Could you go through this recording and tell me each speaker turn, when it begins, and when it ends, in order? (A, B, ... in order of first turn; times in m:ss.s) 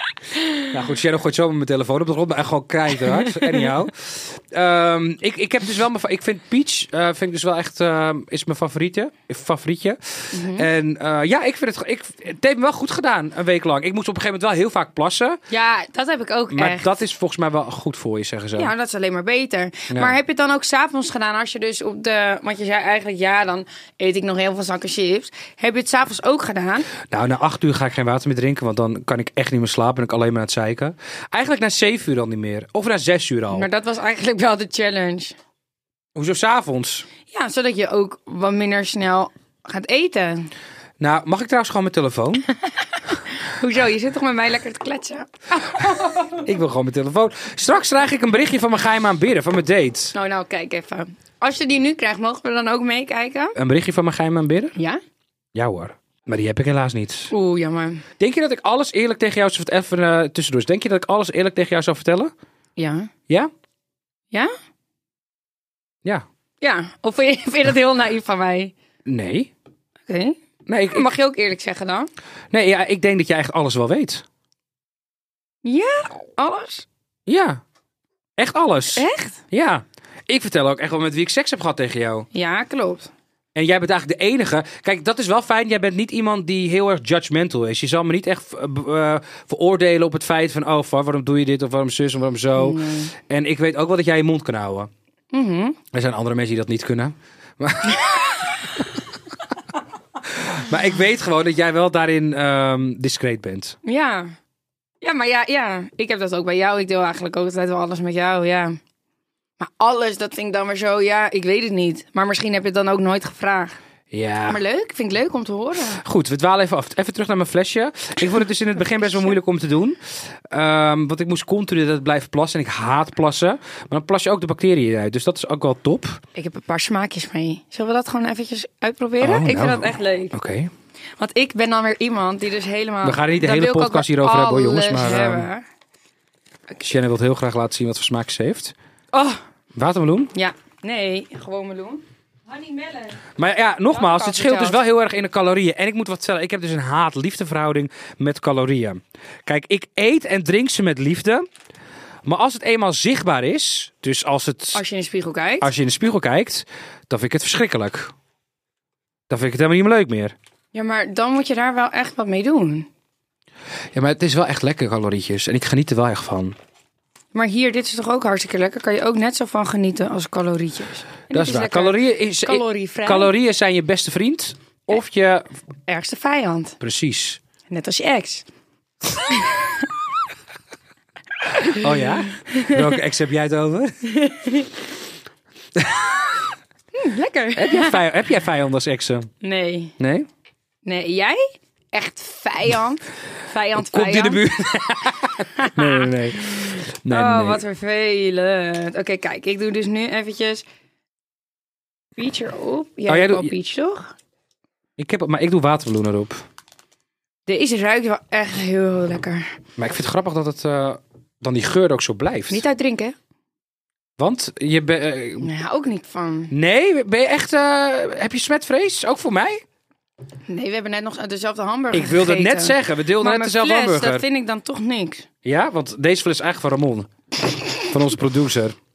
0:00.7-0:15.4 A
0:03.2-0:03.6 B
0:10.3-0:10.7 B
0:15.5-0:17.0 B
0:16.5-0:18.7 A
0:18.5-0:26.9 B
0:19.9-0:20.2 A
0:27.0-0:33.7 A
0:33.5-0:35.4 B
0:36.1-0:37.1 A
0:37.3-0:40.5 B
0:41.0-0:42.4 A
0:43.1-0:46.4 B
0:46.3-0:50.1 A
0:50.1-0:53.6 B
0:53.6-0:54.7 A
0:54.8-0:55.0 B
0:55.5-0:57.3 A
0:57.3-0:58.0 B
0:58.2-1:02.3 A
1:02.8-1:03.1 B
1:06.6-1:08.7 B
1:09.0-1:09.5 A
1:10.1-1:10.4 B
1:10.7-1:11.0 A
1:10.9-1:12.1 B
1:12.5-1:14.2 A
1:15.6-1:16.8 B
1:17.3-1:17.6 A
1:18.4-1:22.3 A
1:18.9-1:19.4 B
1:22.3-1:23.1 B
1:23.5-1:34.9 A
1:32.6-1:33.1 B
1:35.3-1:35.8 B
1:35.9-1:38.5 A
1:40.2-1:43.8 A
1:43.8-1:44.3 B
1:45.0-1:48.8 B
1:49.6-1:53.8 B
1:54.1-1:54.6 A
1:54.5-1:56.0 B
1:56.0-2:06.2 A
2:06.3-2:10.3 B
2:09.2-2:10.7 A
2:11.2-2:15.6 B
2:13.0-2:15.5 A
2:16.8-2:18.7 A
2:19.1-2:19.4 B
2:19.7-2:20.3 A
2:20.3-2:23.2 B
2:23.4-2:31.4 A
2:23.9-2:24.8 B
2:32.2-2:34.8 A
2:34.7-2:35.7 B
2:35.6-2:38.1 A
2:39.3-2:40.3 A
2:40.7-2:42.9 B
2:43.9-2:46.6 A
2:47.3-2:53.3 B
2:51.3-2:55.5 A
2:55.9-2:56.8 B
2:56.8-2:57.4 A
2:57.7-2:58.4 B
2:59.2-2:59.8 B
3:01.6-3:02.8 B
3:01.7-3:04.0 A
3:04.0-3:04.7 B
3:06.9-3:08.0 B
3:07.6-3:09.3 A
3:09.4-3:09.9 B
3:10.0-3:10.3 A
3:10.8-3:14.4 B
3:13.7-3:17.6 A
3:15.6-3:20.6 B
3:22.2-3:24.1 B
3:23.1-3:23.5 A
3:25.0-3:26.4 A
3:27.5-3:29.5 B
3:29.8-3:32.6 A
3:32.5-3:33.1 B
3:34.2-3:35.5 A
3:35.4-3:36.5 B
3:36.5-3:39.6 A
3:40.5-3:45.3 B
3:41.9-3:44.2 A
3:45.4-3:47.1 A
3:47.8-3:48.7 A